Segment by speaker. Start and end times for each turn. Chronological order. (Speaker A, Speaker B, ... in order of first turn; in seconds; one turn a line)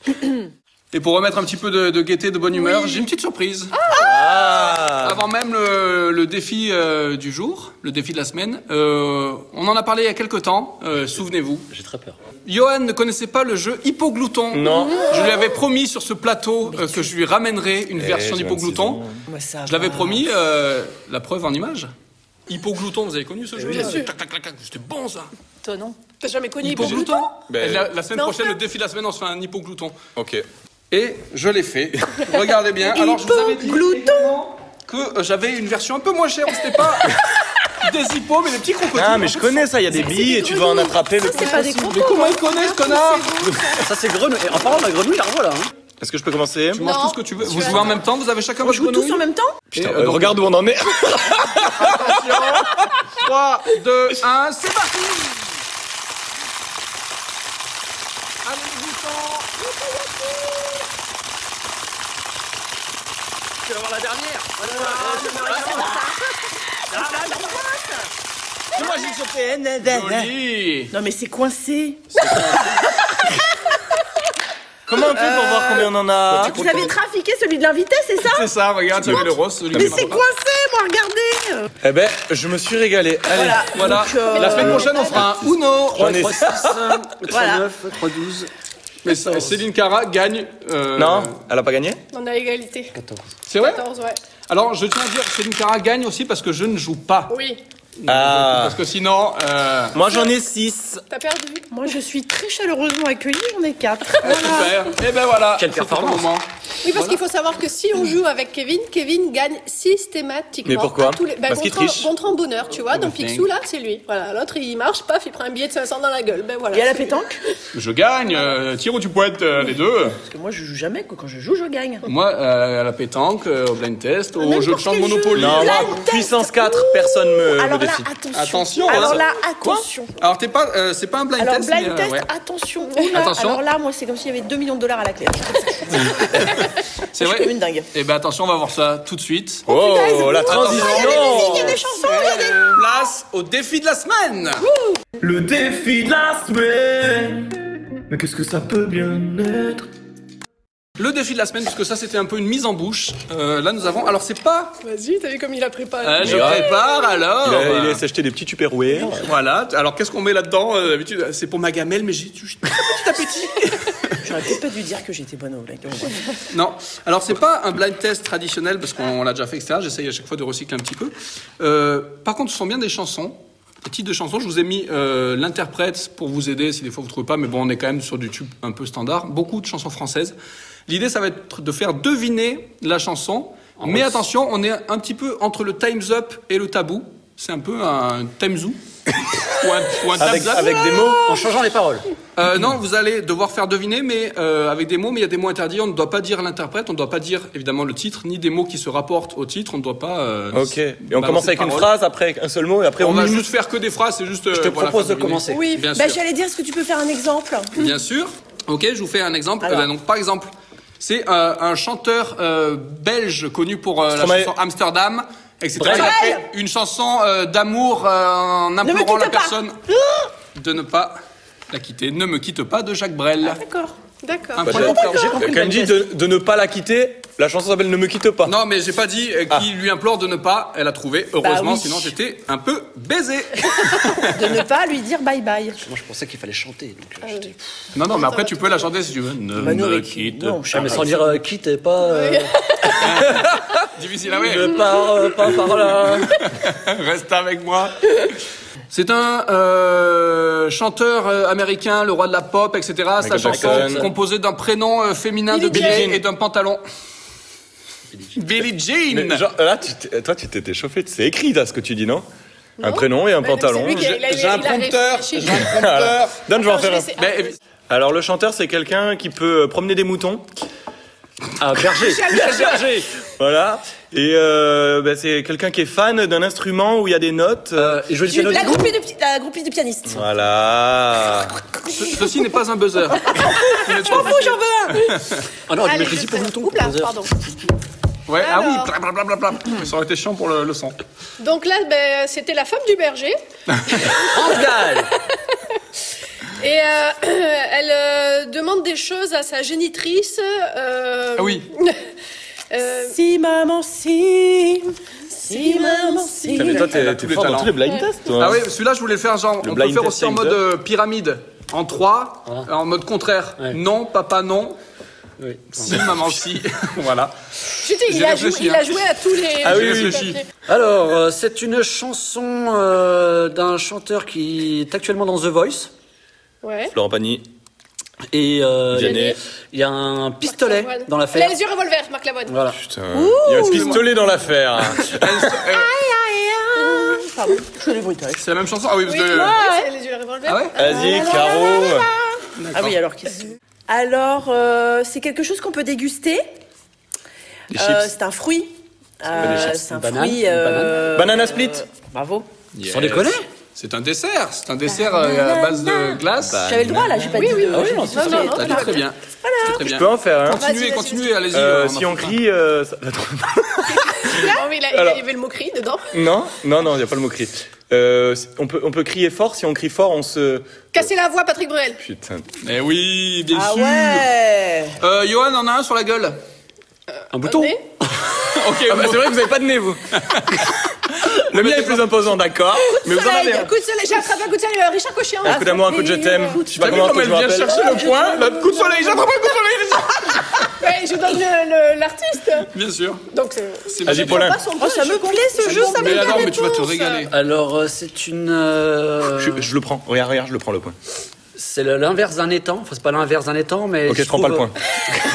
Speaker A: 0.9-3.8
Speaker B: 3.9-5.2
Speaker A: 5.0-11.7
Speaker C: 11.7-12.2
Speaker A: 12.5-19.0
Speaker B: 14.5-15.1
Speaker D: 14.7-15.4
Speaker E: 16.7-17.1
Speaker B: 18.0-19.2
Speaker E: 19.3-20.3
Speaker A: 19.7-21.9
Speaker A: 22.5-25.3
Speaker C: 23.6-24.0
Speaker D: 23.8-24.1
Speaker E: 25.6-26.0
Speaker D: 26.2-27.4
Speaker A: 26.6-30.0
Speaker B: 27.5-27.9
Speaker D: 28.1-28.6
Speaker B: 30.2-30.4
Speaker A: 30.9-37.2
Speaker E: 32.9-34.5
Speaker A: 37.7-39.8
Speaker B: 39.0-41.9
Speaker D: 40.0-43.8
Speaker E: 40.3-40.6
Speaker E: 41.3-42.7
Speaker A: 41.9-43.6
Speaker C: 43.8-45.7
Speaker B: 46.0-46.9
Speaker A: 46.7-50.5
Speaker D: 46.8-48.0
Speaker E: 48.6-49.6
Speaker B: 49.8-52.7
Speaker A: 51.8-55.6
Speaker A: 58.5-59.5
Speaker E: 59.7-60.6
Speaker A: 63.9-64.6
Speaker E: 64.6-68.1
Speaker C: 64.7-65.5
Speaker A: 65.5-65.9
Speaker E: 68.8-69.1
Speaker A: 68.8-70.9
Speaker E: 69.8-70.3
Speaker E: 70.9-73.4
Speaker A: 72.2-73.0
Speaker B: 74.9-76.5
Speaker E: 75.0-78.5
Speaker C: 76.4-76.9
Speaker A: 78.2-80.2
Speaker B: 79.0-80.1
Speaker E: 79.0-81.7
Speaker B: 81.8-83.7
Speaker E: 83.3-85.2
Speaker A: 83.7-86.2
Speaker D: 84.3-85.3
Speaker C: 85.9-88.5
Speaker B: 86.0-86.9
Speaker E: 87.3-87.7
Speaker A: 89.0-91.3
Speaker C: 89.2-89.6
Speaker B: 91.0-92.0
Speaker D: 92.1-92.9
Speaker C: 93.0-93.3
Speaker A: 93.5-93.8
Speaker D: 93.6-94.2
Speaker A: 94.5-97.3
Speaker D: 97.3-97.6
Speaker A: 98.0-100.0
Speaker B: 98.1-98.8
Speaker B: 99.9-101.0
Speaker D: 101.1-101.7
Speaker E: 101.7-104.8
Speaker A: 104.2-107.2
Speaker C: 105.6-106.3
Speaker D: 106.8-117.1
Speaker B: 110.7-112.1
Speaker A: 112.9-113.5
Speaker E: 116.7-117.4
Speaker A: 117.7-120.2
Speaker E: 120.1-122.0
Speaker A: 122.1-125.9
Speaker E: 124.4-130.2
Speaker B: 125.4-128.1
Speaker A: 128.3-129.2
Speaker A: 130.2-132.3
Speaker E: 131.4-136.3
Speaker A: 133.1-133.6
Speaker A: 135.9-136.6
Speaker A: 137.2-139.7
Speaker E: 137.2-137.9
Speaker D: 139.7-142.5
Speaker B: 139.7-141.8
Speaker A: 140.5-144.6
Speaker E: 140.6-142.8
Speaker F: 145.2-147.6
Speaker F: 148.1-149.9
Speaker A: 151.0-154.8
Speaker D: 154.8-157.1
Speaker A: 156.0-158.0
Speaker B: 156.2-156.7
Speaker B: 157.4-159.2
Speaker A: 159.1-164.2
Speaker E: 164.2-166.3
Speaker A: 166.5-180.3
Speaker A: 180.9-188.8
Speaker C: 183.8-184.2
Speaker A: 189.5-190.9
Speaker B: 190.2-191.4
Speaker C: 191.2-192.1
Speaker A: 192.4-201.9
Speaker B: 200.5-203.5
Speaker A: 203.0-206.2
Speaker C: 204.5-205.8
Speaker D: 205.5-205.9
Speaker E: 205.9-207.8
Speaker A: 207.8-219.8
Speaker E: 209.6-209.9
Speaker B: 214.1-214.5
Speaker C: 215.8-216.2
Speaker E: 215.8-216.5
Speaker E: 218.8-220.3
Speaker A: 220.5-221.2
Speaker A: 221.7-223.6
Speaker E: 223.4-224.0
Speaker D: 224.2-224.9
Speaker A: 224.6-225.4
Speaker B: 224.6-228.6
Speaker E: 224.7-226.1
Speaker C: 224.9-225.8
Speaker A: 228.4-234.3
Speaker E: 231.4-232.1
Speaker E: 234.2-235.8
Speaker C: 235.8-237.6
Speaker D: 237.2-237.5
Speaker A: 237.9-241.0
Speaker D: 238.1-238.9
Speaker E: 239.6-241.4
Speaker C: 240.7-242.5
Speaker D: 242.0-243.2
Speaker A: 243.0-244.9
Speaker C: 243.2-243.5
Speaker C: 244.4-246.4
Speaker A: 246.0-248.3
Speaker A: 248.9-256.8
Speaker B: 253.2-254.1
Speaker C: 253.5-254.1
Speaker D: 255.5-256.1
Speaker B: 255.7-256.2
Speaker C: 258.1-258.4
Speaker A: 258.4-259.4
Speaker B: 259.1-262.2
Speaker D: 262.8-265.8
Speaker B: 262.8-264.2
Speaker A: 263.9-266.4
Speaker B: 265.6-267.1
Speaker D: 266.5-267.6
Speaker A: 267.2-267.5
Speaker B: 267.9-270.4
Speaker C: 271.6-273.1
Speaker D: 272.0-272.9
Speaker B: 272.3-272.7
Speaker B: 273.4-278.0
Speaker C: 277.8-278.9
Speaker E: 278.3-280.2
Speaker B: 280.1-281.6
Speaker A: 281.9-285.4
Speaker E: 283.3-285.1
Speaker C: 285.7-287.3
Speaker D: 285.8-287.3
Speaker A: 288.3-291.0
Speaker D: 288.4-288.9
Speaker D: 291.4-293.4
Speaker A: 293.8-294.1
Speaker D: 293.9-294.6
Speaker C: 294.2-295.1
Speaker D: 295.5-295.8
Speaker D: 296.6-302.0
Speaker A: 301.4-301.7
Speaker D: 302.7-303.1
Speaker E: 302.9-306.9
Speaker D: 305.5-306.8
Speaker A: 306.5-307.7
Speaker B: 306.6-308.7
Speaker D: 307.8-308.1
Speaker A: 308.4-314.8
Speaker B: 309.6-310.6
Speaker C: 315.4-316.1
Speaker A: 315.7-317.3
Speaker D: 317.8-320.4
Speaker A: 317.9-320.4
Speaker B: 319.6-320.3
Speaker C: 320.7-325.9
Speaker D: 326.6-326.9
Speaker B: 326.9-327.4
Speaker C: 328.3-331.6
Speaker B: 328.9-329.4
Speaker D: 329.0-329.4
Speaker D: 330.4-332.6
Speaker C: 332.5-332.8
Speaker B: 332.8-335.5
Speaker E: 333.1-334.1
Speaker A: 333.7-334.1
Speaker A: 335.0-335.9
Speaker E: 335.7-338.5
Speaker D: 336.8-337.2
Speaker A: 338.4-339.6
Speaker D: 339.1-341.4
Speaker E: 339.3-339.9
Speaker A: 340.5-340.7
Speaker B: 340.8-342.1
Speaker E: 340.9-346.5
Speaker A: 342.6-343.0
Speaker B: 347.7-348.1
Speaker E: 347.8-352.5
Speaker B: 349.4-349.8
Speaker C: 349.4-351.1
Speaker B: 351.1-351.8
Speaker A: 352.7-356.8
Speaker C: 352.9-353.5
Speaker E: 354.9-359.9
Speaker B: 356.4-357.4
Speaker D: 357.3-359.1
Speaker C: 357.7-358.7
Speaker A: 358.1-362.4
Speaker B: 359.8-360.6
Speaker D: 360.5-361.4
Speaker B: 361.5-365.2
Speaker D: 363.9-366.2
Speaker B: 366.1-371.0
Speaker D: 370.9-372.0
Speaker B: 372.0-372.4
Speaker A: 372.6-374.3
Speaker E: 373.5-375.0
Speaker A: 375.0-376.4
Speaker C: 377.3-377.8
Speaker D: 377.4-377.8
Speaker A: 378.4-379.4
Speaker B: 378.9-380.0
Speaker A: 380.1-380.7
Speaker B: 381.2-383.7
Speaker A: 381.4-382.1
Speaker D: 383.0-386.5
Speaker E: 383.2-383.6
Speaker B: 385.4-387.8
Speaker E: 385.5-387.1
Speaker A: 386.8-390.7
Speaker E: 387.7-388.6
Speaker D: 387.9-389.3
Speaker D: 390.8-392.7
Speaker A: 392.7-393.2
Speaker D: 393.3-397.3
Speaker A: 393.9-394.6
Speaker B: 394.1-394.6
Speaker E: 394.2-396.6
Speaker A: 395.6-397.3
Speaker C: 397.3-399.7
Speaker B: 399.4-401.0
Speaker C: 401.6-404.7
Speaker B: 404.1-404.8